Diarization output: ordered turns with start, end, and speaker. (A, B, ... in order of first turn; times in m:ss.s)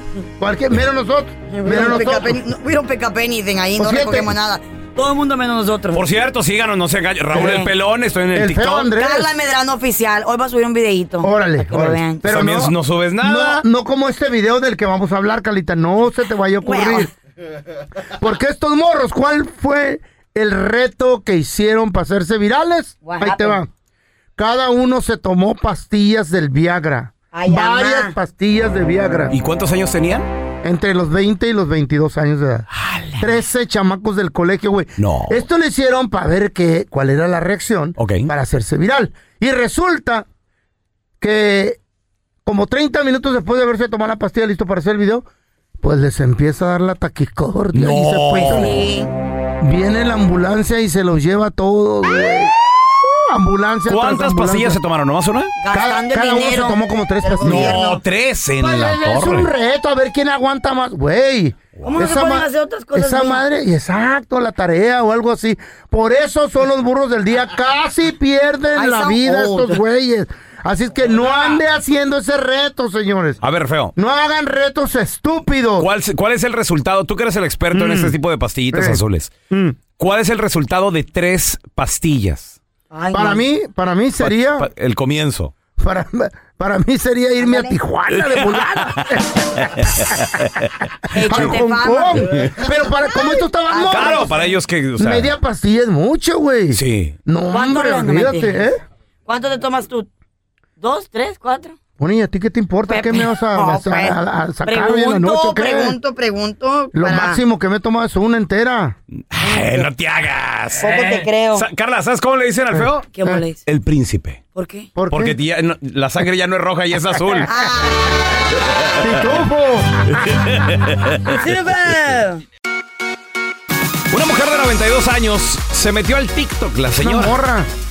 0:00.4-0:02.4 A
0:01.5-0:06.0 B
0:03.8-0:04.3 A
0:05.9-0:09.0 C
0:07.4-0:07.7 B
0:08.3-0:09.3 A
0:08.9-0:12.3 B
0:11.2-0:17.1 A
0:12.2-0:13.6 C
0:16.6-0:17.1 B
0:18.2-0:23.7 A
0:23.0-0:23.6 B
0:24.4-0:29.3 A
0:27.3-0:28.2 B
0:29.3-0:30.3 C
0:30.6-0:32.6 A
0:32.8-0:33.2 C
0:33.2-0:40.3 A
0:35.0-0:35.4 C
0:38.0-0:38.3 C
0:41.2-0:41.8 A
0:42.4-0:45.3 A
0:45.8-0:48.8 A
0:47.7-0:48.8 C
0:48.5-0:49.1 B
0:49.6-0:52.5 A
0:53.3-0:54.8 A
0:53.9-0:55.5 C
0:55.6-0:58.0 B
0:55.7-0:57.9 A
0:57.4-0:59.5 C
0:58.6-1:13.4 A
1:01.9-1:03.4 B
1:08.7-1:09.8 B
1:13.4-1:13.9 C
1:14.0-1:15.9 A
1:15.8-1:19.3 C
1:17.7-1:18.2 A
1:18.7-1:19.8 A
1:20.0-1:22.6 C
1:22.9-1:23.4 B
1:23.1-1:24.7 A
1:24.2-1:25.5 C
1:25.8-1:29.2 A
1:27.4-1:27.8 B
1:31.1-1:32.3 B
1:31.2-1:34.3 A
1:31.3-1:31.6 C
1:33.7-1:34.5 B
1:33.9-1:35.4 C
1:35.0-1:38.8 A
1:36.7-1:37.2 C
1:37.5-1:38.6 B
1:39.3-1:40.1 B
1:40.8-1:41.8 B
1:42.0-1:46.0 A
1:42.9-1:47.4 B
1:46.9-1:49.0 A
1:49.3-1:53.1 C
1:49.4-1:49.9 B
1:50.8-1:51.7 B
1:53.1-1:53.6 B
1:53.6-1:54.4 C
1:54.6-1:54.9 B
1:55.0-1:55.4 A
1:55.1-1:57.5 C
1:57.4-1:58.2 B
1:59.0-2:00.0 A
2:00.6-2:01.2 C
2:01.2-2:02.4 B
2:04.1-2:07.4 C
2:07.0-2:07.7 A